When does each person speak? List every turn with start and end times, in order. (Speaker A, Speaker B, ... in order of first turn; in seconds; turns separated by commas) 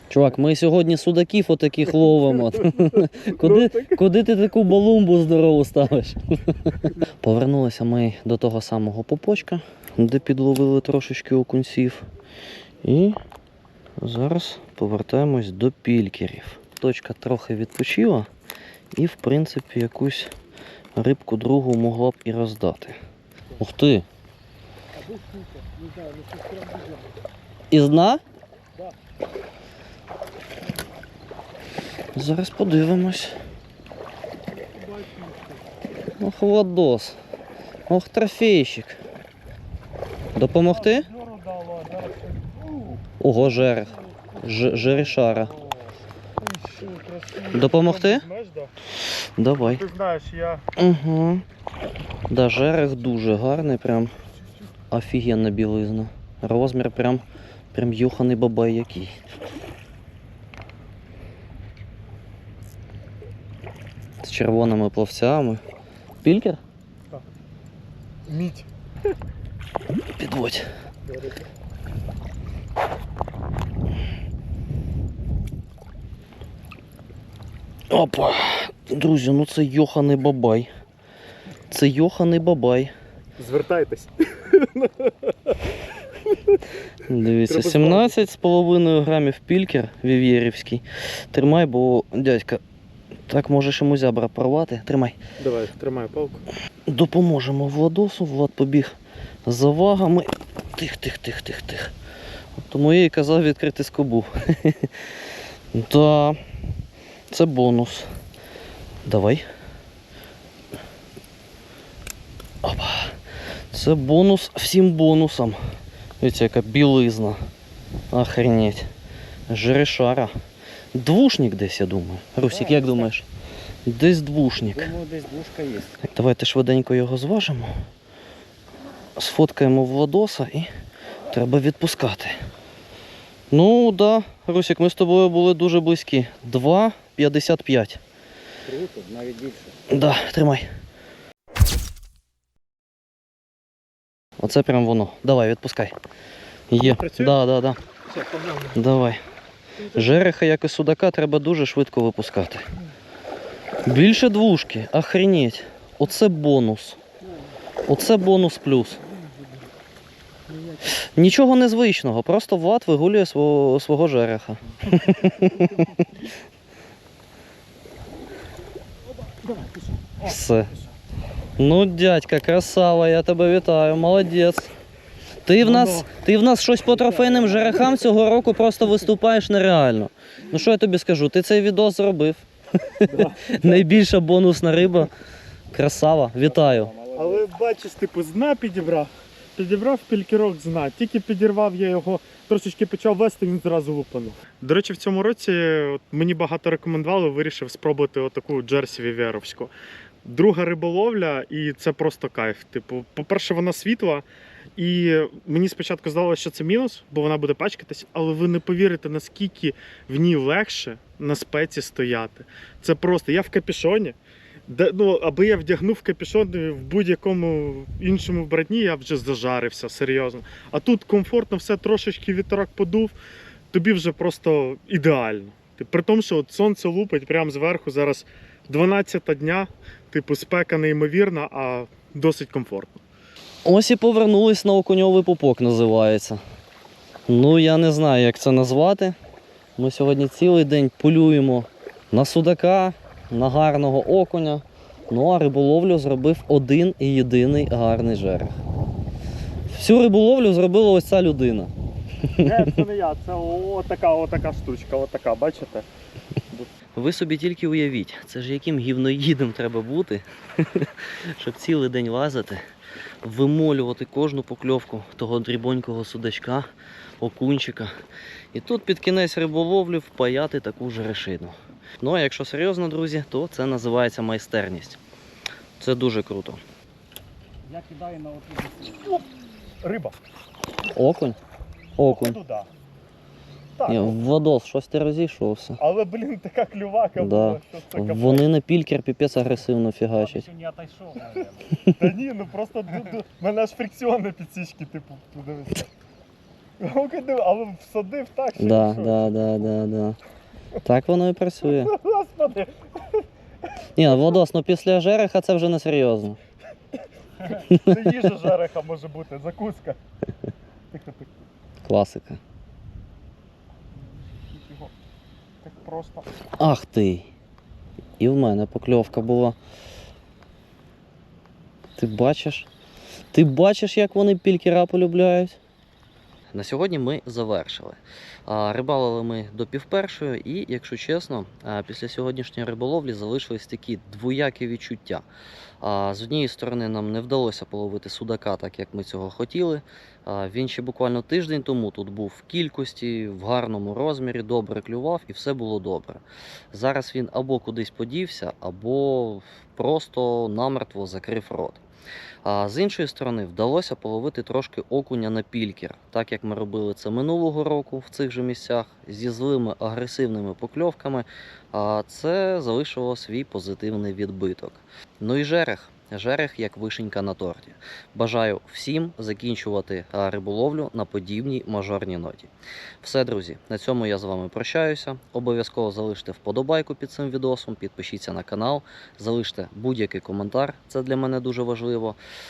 Speaker A: 0.1-12.1, Speaker B: 1.9-4.0, Speaker A: 12.8-13.2, Speaker A: 14.0-18.3, Speaker A: 18.9-20.3, Speaker A: 21.0-23.0, Speaker A: 23.6-24.1, Speaker B: 24.9-27.2, Speaker A: 27.7-28.2, Speaker A: 32.1-33.4, Speaker B: 34.5-35.7, Speaker A: 36.2-37.2, Speaker A: 37.9-39.0, Speaker A: 40.4-41.1, Speaker B: 40.6-43.0, Speaker A: 43.2-45.5, Speaker B: 44.8-45.8, Speaker B: 46.4-48.7, Speaker A: 47.5-48.3, Speaker A: 49.4-49.8, Speaker B: 49.6-50.7, Speaker A: 50.8-51.5, Speaker A: 52.3-54.1, Speaker A: 54.9-59.1, Speaker A: 64.2-65.6, Speaker A: 66.2-66.6, Speaker B: 68.3-68.7, Speaker A: 70.1-70.7, Speaker B: 71.0-71.5, Speaker A: 77.9-80.7, Speaker A: 81.7-82.9, Speaker B: 83.4-86.6, Speaker A: 87.0-92.6, Speaker B: 87.5-88.2, Speaker A: 93.3-95.2, Speaker B: 95.4-96.5, Speaker A: 96.9-101.9, Speaker A: 102.6-105.1, Speaker A: 105.7-106.4, Speaker A: 107.3-108.1, Speaker A: 109.0-109.4, Speaker A: 112.6-113.2, Speaker A: 113.7-115.6, Speaker A: 116.2-117.4, Speaker A: 118.1-118.9, Speaker A: 119.5-120.3, Speaker A: 121.0-123.3, Speaker C: 122.5-123.1, Speaker A: 123.9-124.9, Speaker C: 124.7-126.0, Speaker A: 126.0-127.7, Speaker A: 129.2-130.7, Speaker A: 131.3-132.4, Speaker A: 133.5-138.0, Speaker C: 138.7-139.8, Speaker A: 139.9-140.7, Speaker A: 144.4-146.0, Speaker A: 146.7-147.8, Speaker B: 146.8-147.3, Speaker B: 148.1-148.8, Speaker A: 148.7-149.2, Speaker A: 149.9-152.7, Speaker A: 153.9-157.0, Speaker A: 157.9-159.0, Speaker B: 159.2-159.5, Speaker B: 160.5-160.8, Speaker A: 160.9-166.0, Speaker B: 165.2-166.1, Speaker B: 169.2-170.9, Speaker A: 170.2-170.8, Speaker A: 171.6-174.7, Speaker A: 175.4-185.1, Speaker B: 175.6-176.1, Speaker C: 177.1-177.7, Speaker B: 183.1-184.0, Speaker A: 185.7-186.9, Speaker C: 186.4-187.4, Speaker B: 187.1-199.7, Speaker B: 200.2-223.2, Speaker B: 223.7-233.0, Speaker A: 233.7-236.4, Speaker A: 237.3-239.2, Speaker A: 239.8-248.6, Speaker A: 249.7-251.7, Speaker A: 252.3-252.7, Speaker B: 252.4-255.9, Speaker A: 256.9-262.6, Speaker A: 263.2-266.7, Speaker A: 267.2-267.9, Speaker A: 268.5-275.0, Speaker A: 275.8-276.6, Speaker C: 277.6-279.2, Speaker B: 279.8-280.2, Speaker A: 280.9-281.4, Speaker A: 282.0-282.4, Speaker B: 282.0-282.7, Speaker B: 283.8-284.2, Speaker A: 283.9-285.8, Speaker B: 285.8-288.5, Speaker A: 287.2-290.5, Speaker C: 290.1-291.8, Speaker B: 291.9-295.9, Speaker B: 296.8-299.6, Speaker A: 298.6-300.2, Speaker A: 300.8-301.9, Speaker B: 301.6-303.2, Speaker A: 304.0-306.4, Speaker B: 307.4-310.0, Speaker A: 307.7-307.9, Speaker B: 310.9-311.4, Speaker A: 311.8-312.4, Speaker B: 314.0-314.9, Speaker B: 315.6-316.3, Speaker A: 316.6-317.3, Speaker A: 318.2-319.6, Speaker A: 322.0-322.7, Speaker A: 323.3-325.6, Speaker A: 326.5-335.2, Speaker A: 335.8-351.8, Speaker A: 352.4-382.2